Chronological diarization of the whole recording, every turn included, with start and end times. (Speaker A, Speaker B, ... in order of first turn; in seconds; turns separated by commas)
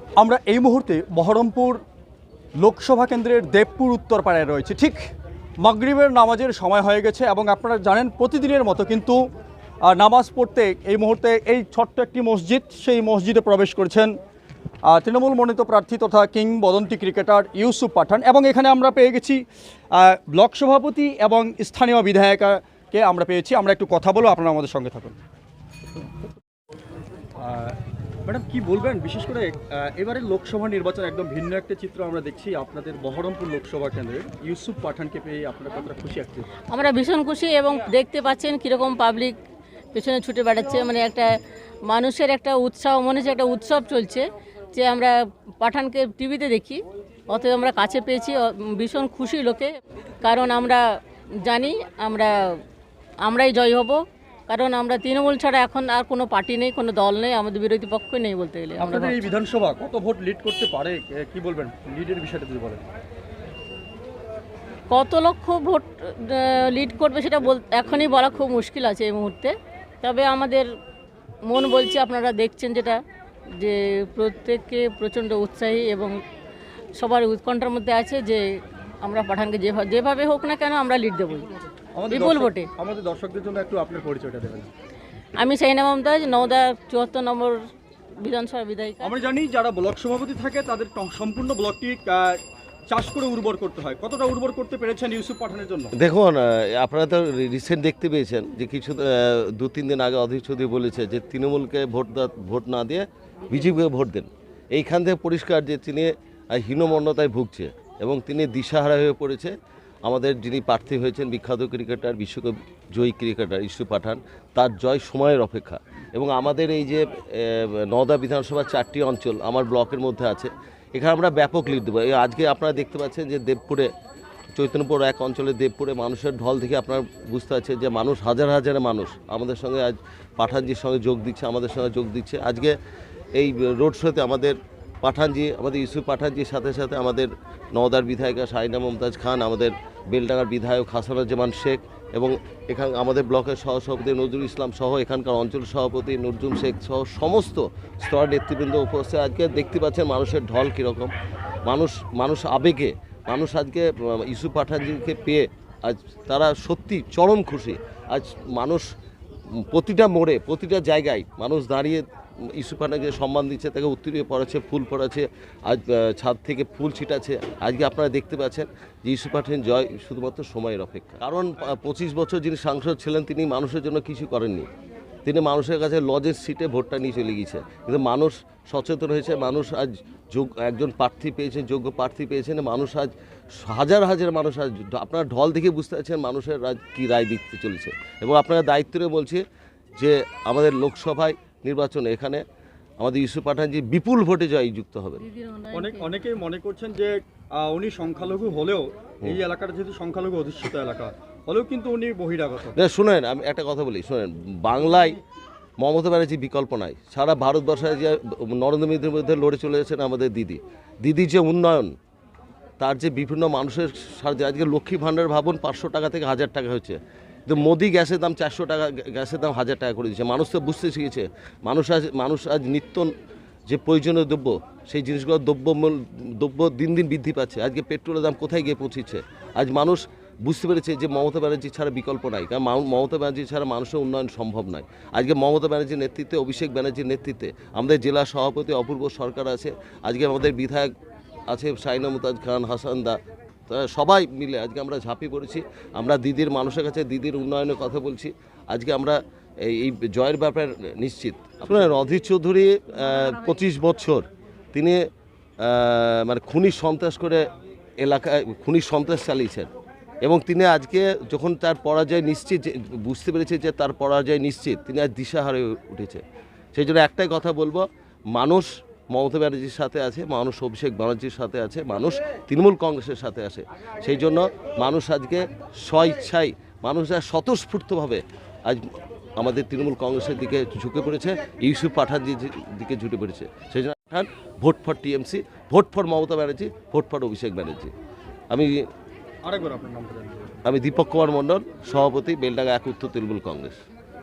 Speaker A: 0.2-1.8, Speaker A: 2.6-5.1, Speaker A: 5.6-9.2, Speaker A: 9.8-14.1, Speaker A: 14.8-19.4, Speaker A: 19.9-25.2, Speaker A: 27.4-36.5, Speaker B: 36.7-39.4, Speaker B: 39.9-52.6, Speaker B: 53.2-59.3, Speaker A: 58.8-62.8, Speaker B: 64.9-70.7, Speaker B: 71.4-76.2, Speaker B: 77.0-81.5, Speaker A: 81.9-84.7, Speaker B: 82.1-82.7, Speaker B: 85.3-87.6, Speaker B: 88.2-89.1, Speaker A: 89.0-95.9, Speaker C: 95.9-109.5, Speaker C: 110.0-123.9, Speaker C: 124.5-132.8, Speaker C: 133.3-151.1, Speaker C: 151.7-158.9, Speaker C: 159.5-174.7, Speaker C: 175.2-189.4, Speaker C: 189.9-192.4, Speaker C: 193.0-195.2, Speaker B: 195.3-195.9, Speaker A: 195.7-202.8, Speaker C: 202.7-205.2, Speaker C: 205.8-211.9, Speaker C: 212.8-223.1, Speaker C: 223.7-240.9, Speaker C: 241.5-255.0, Speaker C: 255.6-257.5, Speaker C: 258.0-259.7, Speaker C: 260.2-266.2, Speaker C: 266.7-287.9, Speaker C: 288.5-288.8, Speaker A: 289.4-290.5, Speaker C: 290.6-293.8